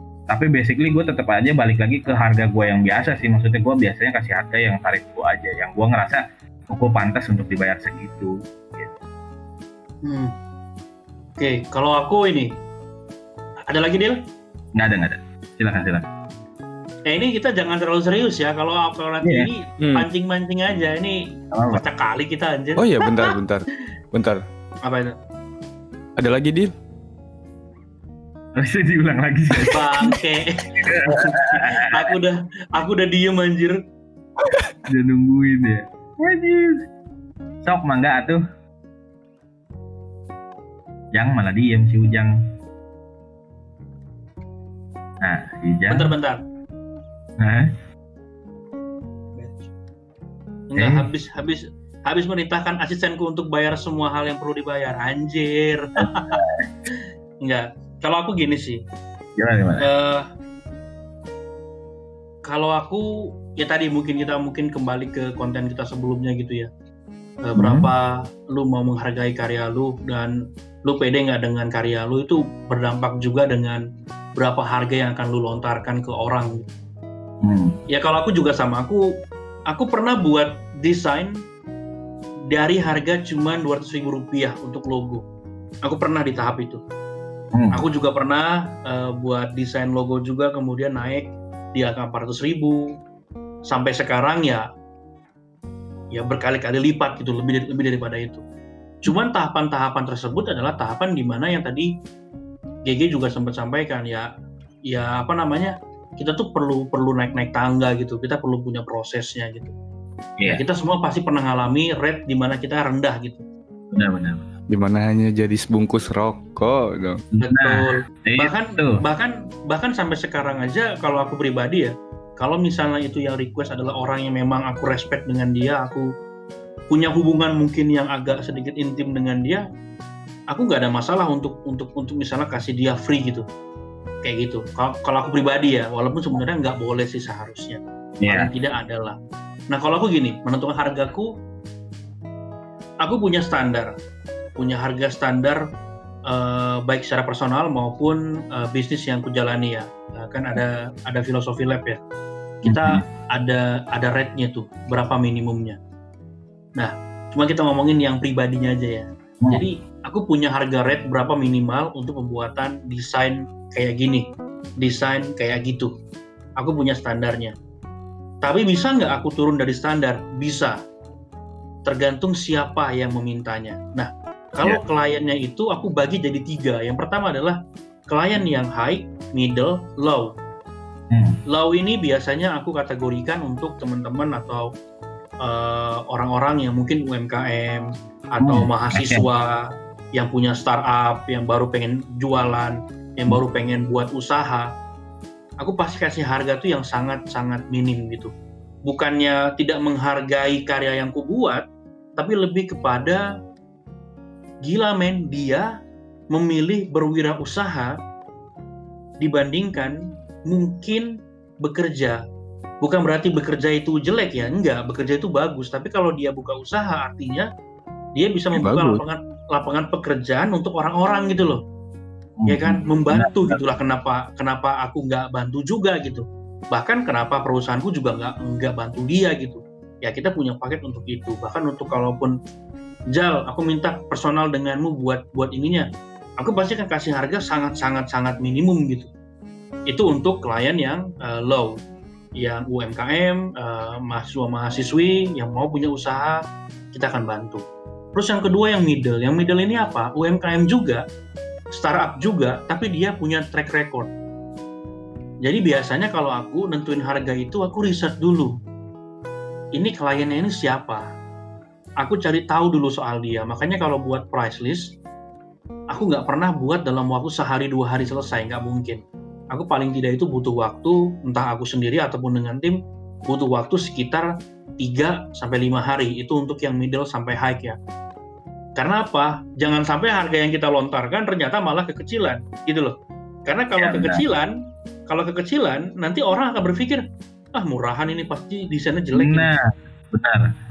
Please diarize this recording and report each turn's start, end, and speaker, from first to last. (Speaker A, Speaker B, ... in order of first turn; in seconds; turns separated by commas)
Speaker A: 0.3-8.9, Speaker B: 10.0-10.3, Speaker B: 11.4-12.5, Speaker B: 13.7-14.2, Speaker A: 14.8-16.1, Speaker B: 17.1-23.3, Speaker C: 19.8-20.1, Speaker A: 21.5-21.8, Speaker C: 22.8-24.4, Speaker B: 24.9-25.2, Speaker C: 26.2-26.7, Speaker A: 28.6-30.2, Speaker B: 29.7-33.8, Speaker A: 30.8-31.9, Speaker A: 34.9-36.8, Speaker A: 37.6-38.4, Speaker A: 41.1-42.3, Speaker A: 45.2-46.1, Speaker B: 45.9-46.4, Speaker A: 47.4-47.7, Speaker B: 49.4-49.7, Speaker B: 50.7-56.4, Speaker A: 50.8-51.0, Speaker A: 56.0-56.7, Speaker B: 57.4-58.8, Speaker A: 59.4-59.9, Speaker B: 59.8-60.3, Speaker B: 62.5-66.7, Speaker B: 67.4-73.8, Speaker A: 67.6-67.9, Speaker B: 74.4-76.7, Speaker A: 77.4-77.8, Speaker B: 77.9-79.0, Speaker B: 79.7-81.4, Speaker B: 82.5-85.2, Speaker B: 85.8-86.8, Speaker A: 87.5-87.8, Speaker B: 87.7-92.8, Speaker B: 93.7-94.7, Speaker B: 96.1-98.4, Speaker B: 99.0-101.9, Speaker B: 102.9-104.3, Speaker B: 104.9-109.7, Speaker B: 110.5-113.4, Speaker A: 113.9-114.4, Speaker C: 114.7-117.2, Speaker B: 117.4-126.1, Speaker A: 117.5-119.0, Speaker B: 126.9-129.6, Speaker B: 130.5-133.4, Speaker B: 134.2-139.2, Speaker A: 138.2-138.5, Speaker B: 139.7-141.3, Speaker B: 143.0-143.9, Speaker B: 144.6-145.6, Speaker B: 146.3-152.0, Speaker B: 152.6-155.8, Speaker A: 152.7-153.1, Speaker B: 156.8-164.3, Speaker B: 164.8-165.9, Speaker B: 166.6-167.5, Speaker B: 168.4-170.8, Speaker B: 171.9-177.6, Speaker B: 178.1-180.3, Speaker A: 181.1-181.4, Speaker B: 181.5-184.7, Speaker B: 185.4-189.6, Speaker A: 188.4-189.3, Speaker B: 190.2-194.7, Speaker B: 195.6-198.3, Speaker B: 198.9-201.7, Speaker B: 202.2-203.2, Speaker B: 204.7-205.7, Speaker B: 206.3-208.0, Speaker B: 209.2-210.0, Speaker B: 210.5-211.1, Speaker B: 211.6-212.2, Speaker B: 212.8-217.5, Speaker B: 218.2-221.6, Speaker C: 218.6-219.0, Speaker A: 222.4-223.6, Speaker B: 222.5-232.3, Speaker B: 233.1-235.9, Speaker B: 236.4-239.1, Speaker B: 239.9-241.8, Speaker B: 242.4-246.4, Speaker B: 246.9-247.6, Speaker B: 248.2-251.0, Speaker B: 251.7-254.1, Speaker B: 255.4-258.5, Speaker B: 259.8-261.0, Speaker B: 262.0-265.0, Speaker B: 265.9-274.3, Speaker B: 274.8-277.8, Speaker B: 278.8-282.9, Speaker B: 283.5-284.5, Speaker A: 283.8-284.2, Speaker B: 285.1-287.0, Speaker B: 287.6-289.5, Speaker A: 289.1-289.6, Speaker A: 290.1-290.5